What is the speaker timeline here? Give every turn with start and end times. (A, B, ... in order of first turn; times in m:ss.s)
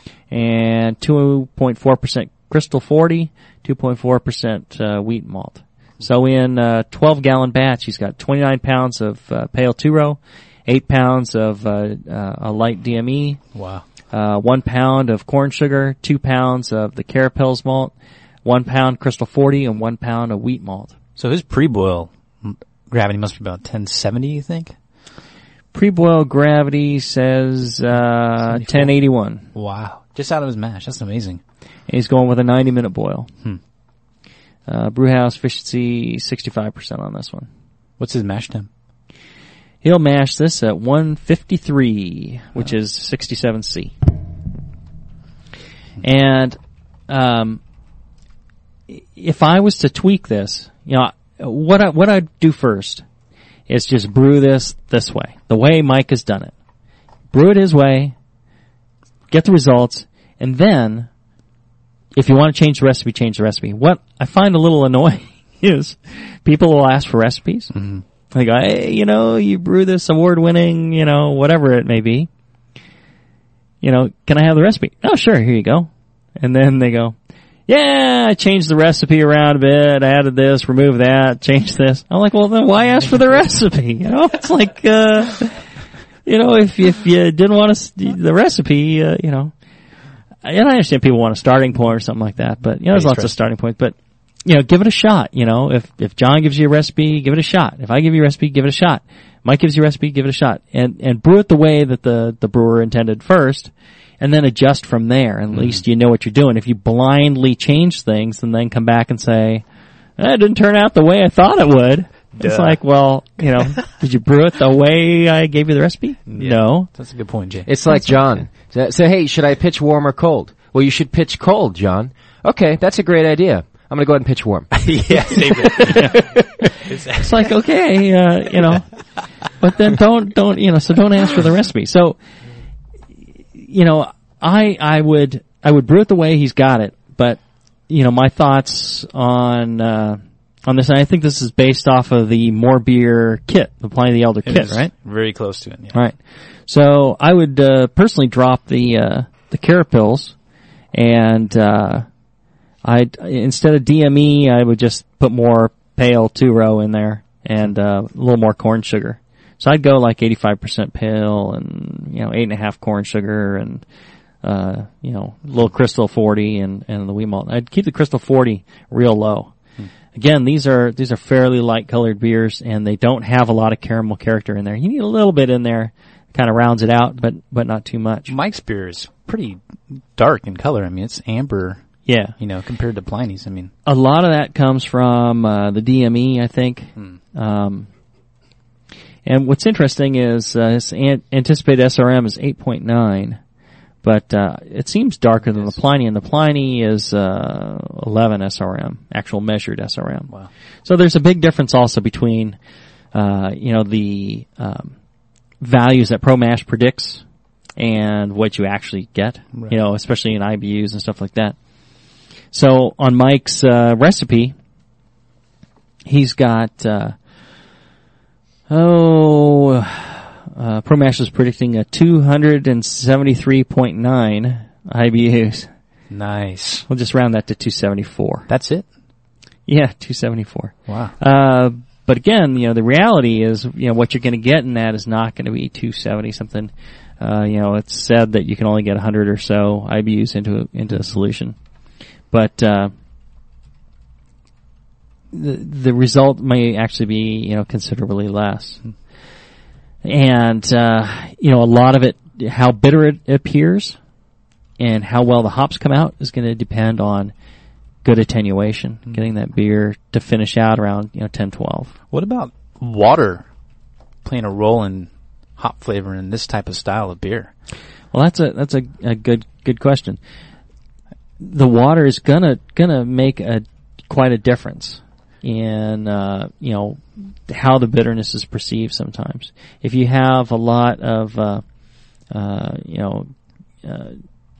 0:00.3-0:13.4 A
0:13.5-0:13.8 B
0:14.1-0:17.9 A
0:18.4-0:21.0 A
0:21.2-0:24.8 B
0:25.7-0:29.5 A
0:28.5-0:28.9 B
0:29.5-0:31.4 B
0:31.9-0:33.3 A
0:34.7-0:37.5 A
0:38.0-0:38.7 B
0:39.8-0:43.9 A
0:46.0-0:46.6 A
0:47.1-0:47.6 A
0:48.9-0:53.0 A
0:53.7-0:56.5 A
0:57.3-0:58.2 A
0:59.3-1:01.1 A
1:02.2-1:07.7 A
1:07.7-1:08.0 B
1:08.3-1:12.3 A
1:13.8-1:17.2 A
1:17.7-1:25.6 A
1:26.2-1:29.5 A
1:30.4-1:49.6 A
1:32.9-1:33.3 B
1:45.5-1:45.8 B
1:50.2-1:56.9 A
1:52.4-1:52.8 B
1:56.3-1:57.7 B
1:57.7-2:06.3 C
2:04.7-2:06.2 B
2:05.9-2:06.2 A
2:06.9-2:07.5 B
2:07.1-2:08.9 A
2:09.6-2:12.2 A
2:13.6-2:24.9 A
2:24.4-2:26.0 B
2:25.9-2:30.4 A
2:30.9-2:32.1 A
2:32.8-2:43.8 A
2:44.4-2:49.5 A
2:50.2-2:58.3 A
2:58.3-3:01.8 B
3:02.1-3:02.4 A
3:02.4-3:03.7 B
3:03.9-3:07.9 A
3:09.2-3:13.4 A
3:14.0-3:20.3 A
3:15.5-3:15.8 B
3:20.8-3:22.6 A
3:23.1-3:25.0 A
3:25.6-3:27.2 A
3:27.8-3:31.6 A
3:32.5-3:34.6 A
3:36.0-3:37.2 A
3:38.7-3:45.7 A
3:46.1-3:46.9 B
3:46.9-3:48.5 A
3:48.5-3:48.9 B
3:49.7-4:01.6 A
3:50.9-3:51.2 B
4:02.3-4:02.9 A
4:05.3-4:08.8 A
4:10.0-4:14.0 A
4:14.8-4:17.3 A
4:18.0-4:21.9 A
4:22.1-4:23.5 B
4:24.2-4:27.5 B
4:28.1-4:30.2 A
4:31.4-4:41.6 A
4:42.3-4:43.3 A
4:43.8-4:44.2 A